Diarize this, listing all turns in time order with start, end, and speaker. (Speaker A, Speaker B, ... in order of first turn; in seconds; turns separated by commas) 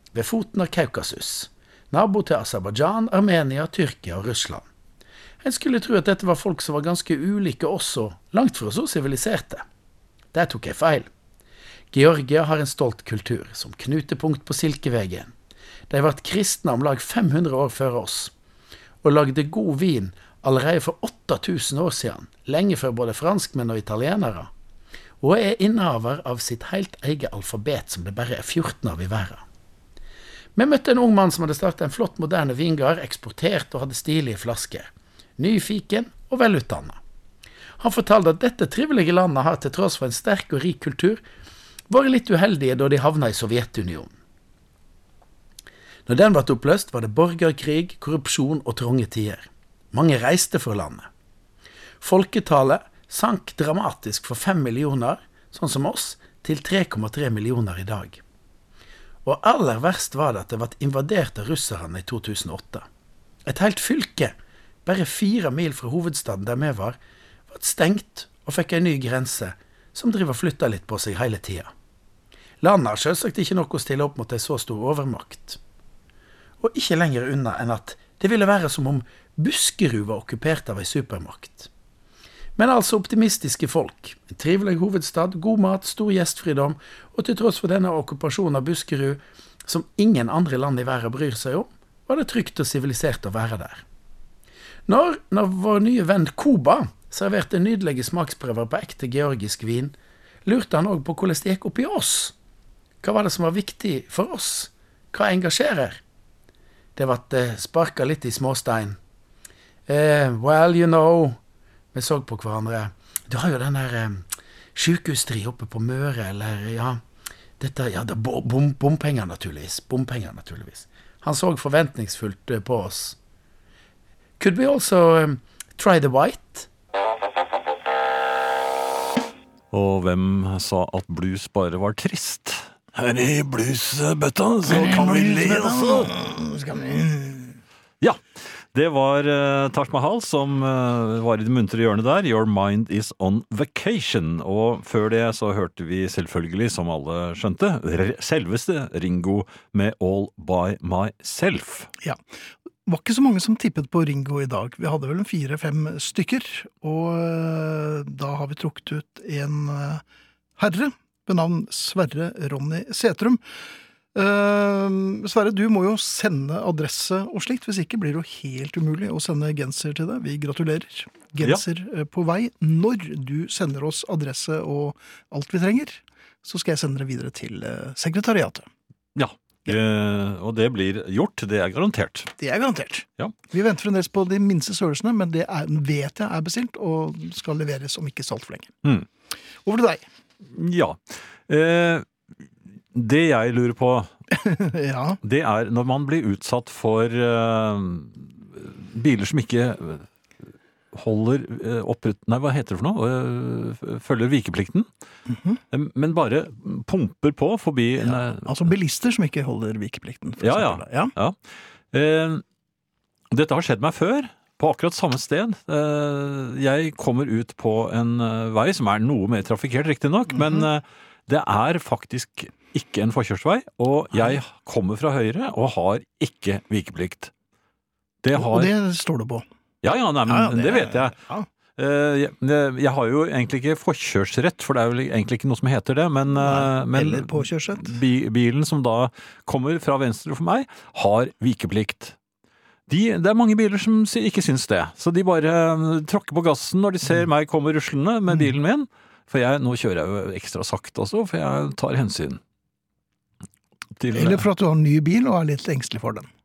Speaker A: 0.1-4.7, Speaker A: 5.4-9.6, Speaker A: 10.3-11.1, Speaker A: 11.9-15.3, Speaker A: 15.9-18.3, Speaker A: 19.0-24.5, Speaker A: 25.2-29.4, Speaker A: 30.6-37.0, Speaker A: 37.8-41.2, Speaker A: 41.9-44.1, Speaker A: 46.0-51.1, Speaker A: 52.0-58.2, Speaker A: 59.2-62.8, Speaker A: 63.4-64.3, Speaker A: 64.8-67.0, Speaker A: 67.5-71.7, Speaker A: 72.6-75.6, Speaker A: 76.6-81.7, Speaker A: 82.6-93.8, Speaker A: 94.9-99.9, Speaker A: 100.5-102.3, Speaker A: 103.0-106.0, Speaker A: 107.0-109.0, Speaker A: 109.9-111.4, Speaker A: 111.9-114.2, Speaker A: 114.7-117.0, Speaker A: 117.6-123.2, Speaker A: 124.4-126.7, Speaker B: 129.7-136.1, Speaker C: 134.7-137.6, Speaker B: 138.7-151.9, Speaker C: 152.8-160.0, Speaker C: 160.6-163.4, Speaker C: 164.1-178.7, Speaker B: 179.2-182.3, Speaker C: 182.4-188.7, Speaker C: 189.6-190.0, Speaker B: 190.5-192.1, Speaker B: 192.9-194.1, Speaker C: 194.3-195.2, Speaker B: 195.2-200.1, Speaker B: 200.9-204.8, Speaker C: 205.3-205.6, Speaker B: 205.7-208.5, Speaker C: 208.0-211.1, Speaker B: 210.4-211.3, Speaker B: 211.9-212.4, Speaker B: 213.3-227.3, Speaker C: 220.3-220.7, Speaker B: 228.2-228.7, Speaker C: 228.3-229.4, Speaker B: 229.8-231.2, Speaker C: 230.2-231.4, Speaker B: 231.8-242.1, Speaker C: 236.3-238.0, Speaker B: 242.9-252.4, Speaker B: 254.0-254.4, Speaker C: 254.1-256.3